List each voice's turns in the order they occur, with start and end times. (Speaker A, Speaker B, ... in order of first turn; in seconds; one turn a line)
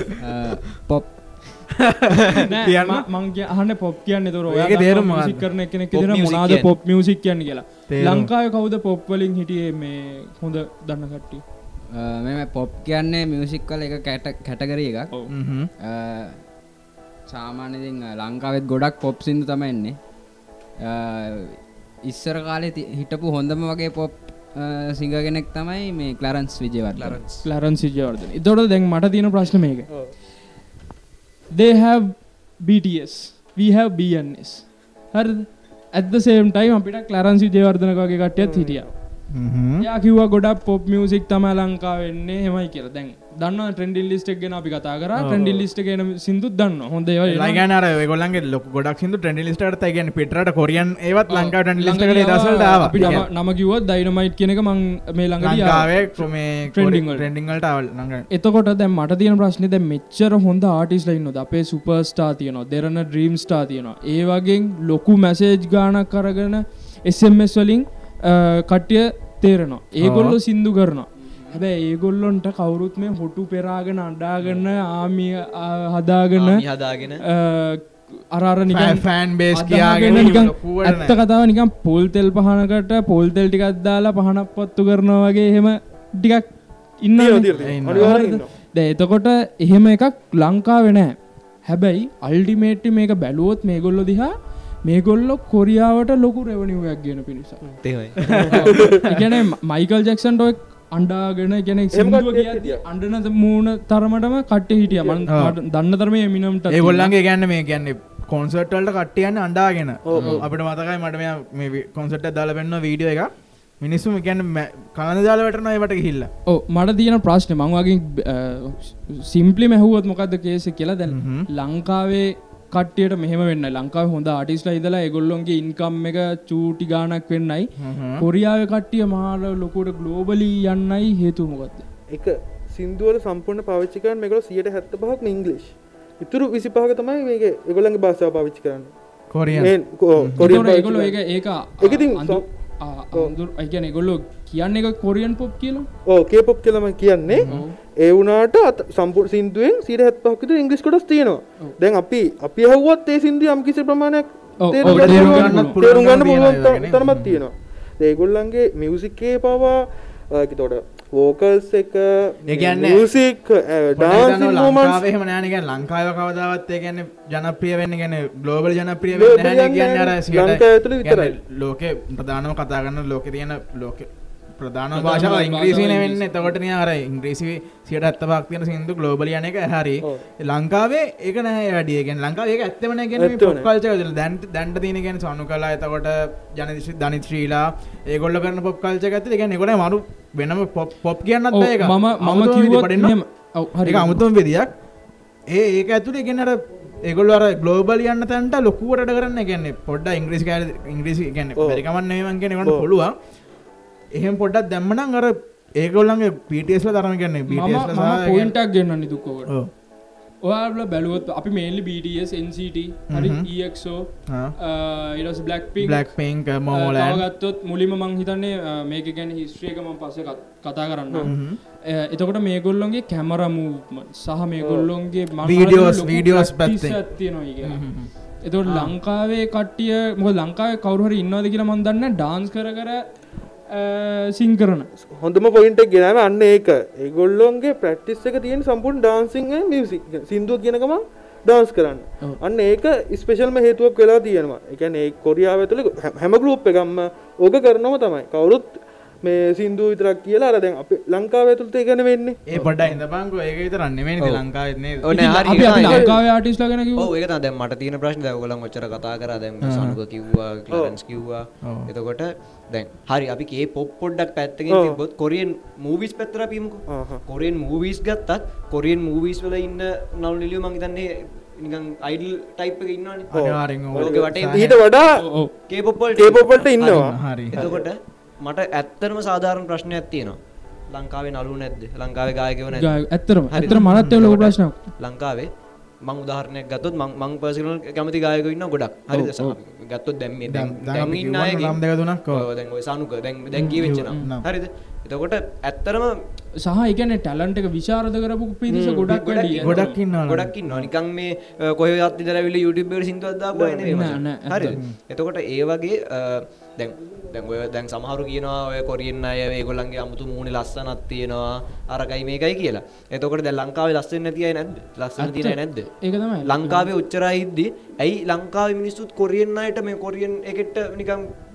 Speaker A: 0.2-1.6
Speaker B: 1.9-3.0
Speaker C: 2.5-11.4
Speaker B: 4.5-5.5
Speaker D: 5.9-6.7
Speaker B: 7.9-8.3
Speaker A: 11.9-15.1
Speaker B: 15.3-15.7
Speaker A: 15.8-16.4
Speaker A: 17.3-19.9
Speaker A: 20.8-21.5
Speaker A: 22.1-27.2
Speaker D: 26.9-27.4
Speaker C: 27.4-29.9
Speaker C: 31.5-38.9
Speaker E: 38.4-38.9
Speaker B: 39.3-39.9
Speaker C: 39.8-47.7
Speaker B: 45.2-45.6
Speaker B: 47.3-53.2
Speaker C: 51.3-57.3
Speaker B: 55.4-58.2
Speaker C: 58.3-76.7
Speaker B: 70.0-70.4
Speaker D: 76.3-77.2
Speaker C: 77.3-86.5
Speaker B: 78.7-81.2
Speaker C: 87.0-94.3
Speaker E: 87.2-88.5
Speaker B: 87.6-88.2
Speaker C: 94.8-97.6
Speaker D: 97.8-98.4
Speaker B: 98.3-99.1
Speaker C: 98.5-107.1
Speaker E: 98.7-99.0
Speaker E: 101.9-102.8
Speaker E: 104.9-105.2
Speaker B: 105.3-105.5
Speaker B: 106.7-116.3
Speaker E: 110.1-110.4
Speaker C: 116.5-127.7
Speaker B: 121.1-121.5
Speaker B: 127.8-128.2
Speaker C: 128.2-131.8
Speaker E: 132.1-138.9
Speaker B: 139.3-140.6
Speaker E: 139.5-141.2
Speaker C: 140.4-145.9
Speaker E: 141.8-142.4
Speaker E: 146.1-165.0
Speaker B: 147.3-147.6
Speaker C: 147.5-147.7
Speaker C: 154.6-155.8
Speaker B: 154.8-157.4
Speaker B: 162.4-163.1
Speaker B: 163.9-193.2
Speaker E: 169.1-171.3
Speaker C: 174.9-176.5
Speaker E: 183.2-183.7
Speaker C: 191.5-194.2
Speaker B: 193.8-194.7
Speaker B: 195.5-203.1
Speaker E: 201.6-201.8
Speaker B: 204.2-208.5
Speaker C: 207.5-209.5
Speaker C: 210.4-214.1
Speaker B: 213.1-213.5
Speaker B: 214.3-214.5
Speaker C: 214.6-216.1
Speaker B: 215.8-217.2
Speaker C: 216.7-221.3
Speaker B: 221.2-221.6
Speaker C: 221.9-227.8
Speaker E: 224.6-224.9
Speaker B: 225.4-227.0
Speaker B: 227.6-228.1
Speaker C: 228.4-233.0
Speaker C: 233.7-234.9
Speaker E: 235.1-252.4
Speaker B: 252.5-255.7
Speaker D: 255.0-256.2
Speaker C: 255.1-257.1
Speaker E: 255.7-256.1
Speaker D: 257.0-273.3
Speaker B: 259.6-260.0
Speaker B: 261.6-261.9
Speaker E: 264.7-265.0
Speaker E: 266.9-267.2
Speaker B: 273.3-274.7
Speaker E: 273.3-275.2
Speaker D: 273.9-274.9
Speaker C: 275.2-275.5
Speaker D: 275.7-280.4
Speaker E: 276.1-277.9
Speaker B: 276.8-277.6
Speaker D: 280.9-282.9
Speaker C: 282.7-284.7
Speaker D: 283.5-285.5
Speaker B: 283.6-284.2
Speaker D: 286.0-296.2
Speaker C: 289.1-289.6
Speaker B: 290.5-292.4
Speaker C: 293.6-294.3
Speaker B: 293.6-294.4
Speaker C: 296.6-300.0
Speaker E: 298.7-299.1
Speaker D: 299.1-315.9
Speaker B: 299.6-300.9
Speaker E: 303.5-303.9
Speaker C: 303.9-304.8
Speaker C: 315.2-316.9
Speaker D: 316.4-321.2